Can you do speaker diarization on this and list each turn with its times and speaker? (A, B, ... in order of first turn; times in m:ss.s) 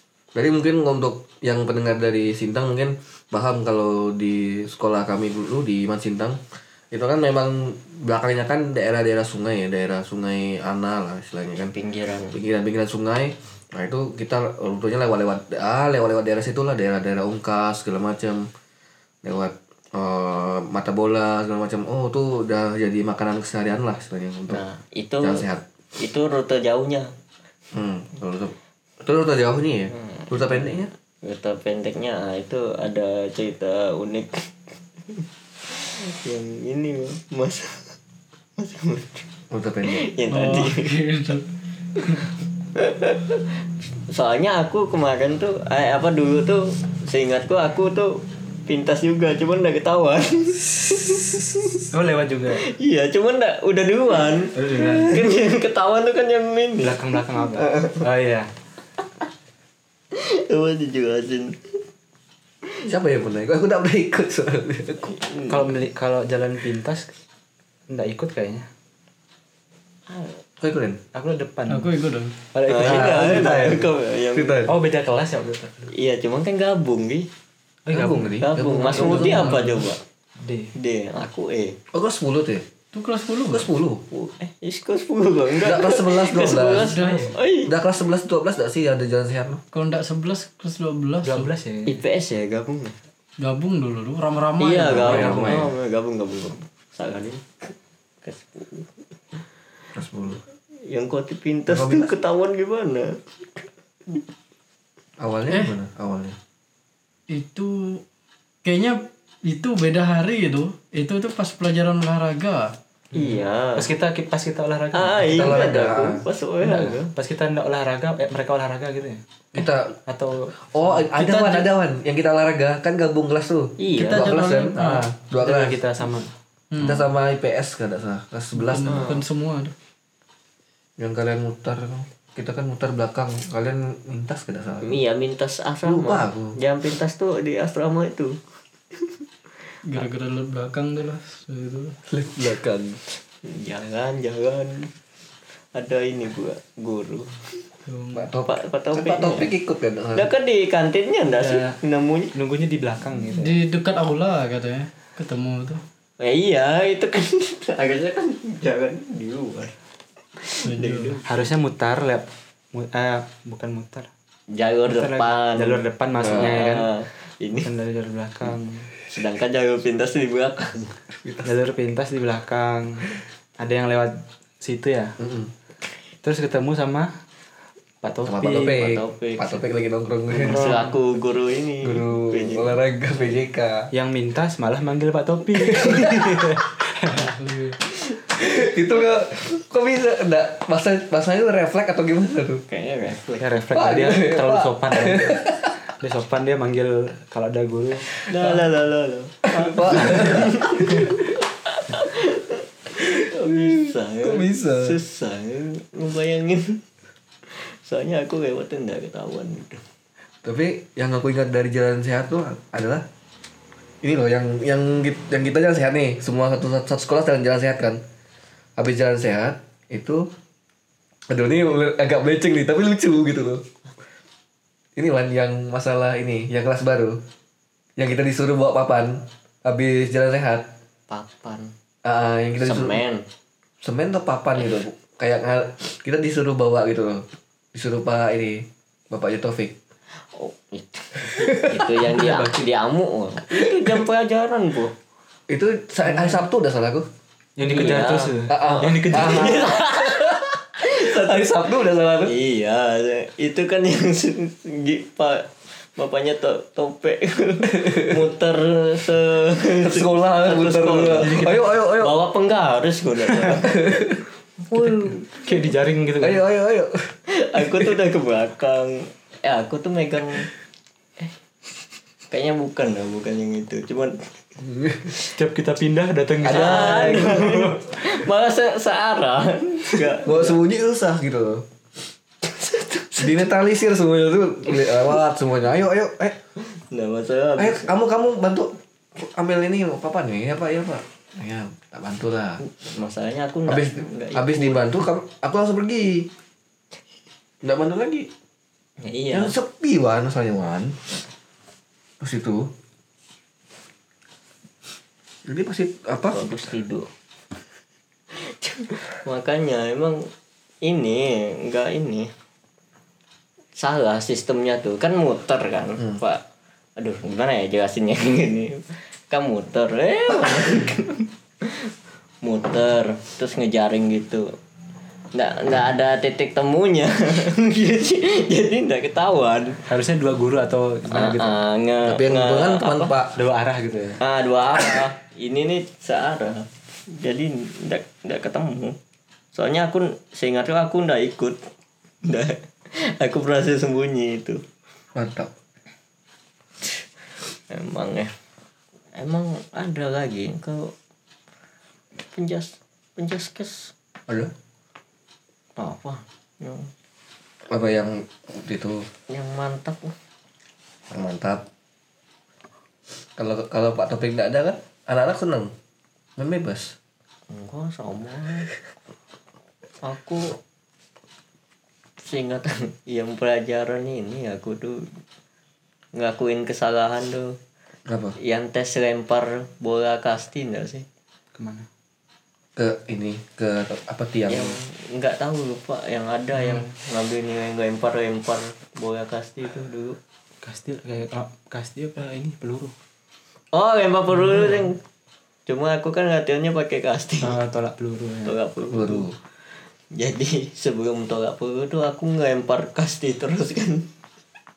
0:00.4-0:06.4 A
0:06.9-0:11.7 A
0:11.7-0:12.4 B
0:12.3-0:18.5 A
0:19.2-0:24.6 A
0:24.5-0:25.5 B
0:25.2-0:25.6 A
0:26.0-0:27.1 B
0:27.7-0:30.9 A
0:29.9-0:38.0 B
0:38.6-0:39.3 B
0:39.5-0:40.1 A
0:39.8-0:41.0 B
0:40.3-0:41.5 C
0:42.8-0:43.5 B
0:44.1-0:51.9 B
0:51.9-0:52.6 D
0:52.6-0:57.0 B
0:54.6-0:55.2 D
0:56.8-0:58.5 D
0:57.6-0:58.1 B
1:00.1-1:01.8 B
1:02.9-1:05.2 A
1:05.1-1:05.7 B
1:05.5-1:07.1 D
1:07.9-1:08.7 D
1:10.1-1:10.4 B
1:10.6-1:11.0 A
1:11.1-1:11.9 D
1:11.7-1:12.4 C
1:12.5-1:13.8 D
1:12.7-1:14.6 B
1:12.8-1:14.7 A
1:14.7-1:15.9 D
1:15.9-1:17.3 B
1:17.9-1:19.8 D
1:17.9-1:19.7 A
1:18.4-1:20.0 B
1:20.4-1:20.7 D
1:20.8-1:21.8 B
1:21.9-1:22.6 A
1:22.9-1:23.7 C
1:23.5-1:24.0 A
1:24.1-1:27.7 B
1:25.6-1:27.0 A
1:26.7-1:27.4 C
1:27.6-1:29.6 A
1:29.7-1:31.5 C
1:31.2-1:32.0 D
1:31.9-1:33.0 B
1:33.4-1:35.6 C
1:34.6-1:39.0 B
1:34.9-1:35.7 A
1:39.9-1:40.4 A
1:40.8-1:44.2 B
1:41.7-1:42.1 A
1:45.2-1:46.4 A
1:47.3-1:48.0 C
1:48.6-1:52.8 C
1:53.1-1:53.9 B
1:53.1-1:55.7 D
1:54.9-1:57.1 B
1:55.3-1:56.2 A
1:56.6-1:59.2 D
1:59.5-2:00.0 A
2:00.1-2:01.7 D
2:00.6-2:05.8 A
2:03.8-2:04.6 B
2:04.0-2:05.1 C
2:05.4-2:06.3 D
2:06.7-2:07.1 C
2:06.8-2:09.2 A
2:08.6-2:09.7 C
2:08.8-2:09.2 B
2:11.0-2:15.0 A
2:14.8-2:18.4 B
2:15.8-2:16.6 A
2:19.8-2:22.0 C
2:22.1-2:23.0 A
2:23.4-2:24.9 B
2:25.8-2:27.6 B
2:27.9-2:28.3 C
2:28.1-2:30.3 A
2:28.4-2:29.5 B
2:30.2-2:32.3 B
2:31.3-2:31.8 D
2:32.3-2:33.6 D
2:33.4-2:35.8 C
2:36.2-2:39.7 B
2:40.4-2:41.2 B
2:40.6-2:41.2 C
2:41.2-2:44.1 D
2:44.5-2:47.7 B
2:44.9-2:46.9 D
2:46.2-2:46.5 A
2:47.6-2:48.9 D
2:49.1-2:51.0 B
2:51.1-2:51.5 A
2:51.4-2:53.1 D
2:53.6-2:55.2 D
2:55.2-2:55.5 A
2:56.2-2:57.1 D
2:58.0-2:58.8 D
2:58.2-3:00.8 A
2:58.6-2:59.6 B
3:00.3-3:00.9 D
3:00.4-3:02.8 B
3:01.8-3:03.9 A
3:03.9-3:07.3 D
3:05.7-3:06.1 A
3:07.1-3:07.8 C
3:08.3-3:12.6 A
3:12.7-3:13.5 B
3:13.4-3:18.3 D
3:13.7-3:15.7 A
3:18.2-3:26.8 B
3:19.4-3:21.2 A
3:23.0-3:25.0 A
3:27.5-3:29.8 B
3:30.4-3:33.0 A
3:34.0-3:38.0 A
3:38.8-3:40.3 A
3:41.3-3:43.7 A
3:45.0-3:47.2 A
3:48.0-3:50.7 A
3:51.1-3:51.7 B
3:52.0-3:53.0 A
3:52.6-3:53.2 B
3:53.8-3:59.8 A
4:00.3-4:04.9 B
4:01.3-4:02.5 A
4:03.6-4:03.9 A
4:05.5-4:07.1 A
4:07.6-4:09.7 D
4:07.6-4:08.4 B
4:08.5-4:12.4 A
4:09.0-4:11.5 B
4:12.2-4:23.9 B
4:19.8-4:22.2 A
4:23.6-4:24.2 A
4:24.7-4:25.3 B
4:25.3-4:26.4 D
4:26.2-4:28.0 A
4:27.3-4:30.5 B
4:32.3-4:34.3 B
4:34.6-4:35.1 A
4:35.3-4:38.0 D
4:36.4-4:37.4 A
4:36.4-4:40.6 B
4:40.2-4:41.7 A
4:42.4-4:43.4 B
4:43.2-4:46.4 A
4:46.7-4:47.9 B
4:47.6-4:52.6 A
4:52.6-4:54.9 B
4:53.7-4:56.3 A
4:57.6-4:58.3 A
4:59.0-4:59.6 B
4:59.3-5:01.1 A
5:02.2-5:02.7 A
5:05.5-5:06.5 A
5:06.3-5:07.1 B
5:08.3-5:10.3 B
5:10.8-5:12.3 B
5:13.8-5:16.4 B
5:17.0-5:21.9 B
5:22.4-5:24.5 B
5:25.3-5:29.8 B
5:29.9-5:31.6 D
5:31.1-5:33.2 B
5:32.0-5:33.4 A
5:33.4-5:34.2 D
5:34.2-5:39.0 B
5:39.5-5:41.6 B
5:42.2-5:44.6 B
5:45.2-5:45.5 A
5:47.7-5:48.3 B
5:49.2-5:50.9 B
5:52.2-5:53.9 B
5:54.3-5:54.5 A
5:55.8-5:56.9 B
5:57.7-5:59.1 A
5:59.3-6:00.1 B
6:01.1-6:01.6 A
6:03.4-6:05.7 A
6:06.4-6:07.0 A
6:07.5-6:08.7 B
6:10.0-6:10.6 B
6:12.2-6:15.1 B
6:16.2-6:17.6 B
6:18.1-6:18.4 A
6:18.4-6:21.1 B
6:21.6-6:21.9 D
6:22.8-6:24.8 A
6:24.5-6:30.2 B
6:30.6-6:32.9 D
6:33.7-6:35.0 B
6:34.4-6:34.8 D
6:35.7-6:37.6 B
6:37.4-6:38.6 D
6:38.4-6:39.3 B
6:38.9-6:39.4 A
6:40.1-6:44.1 B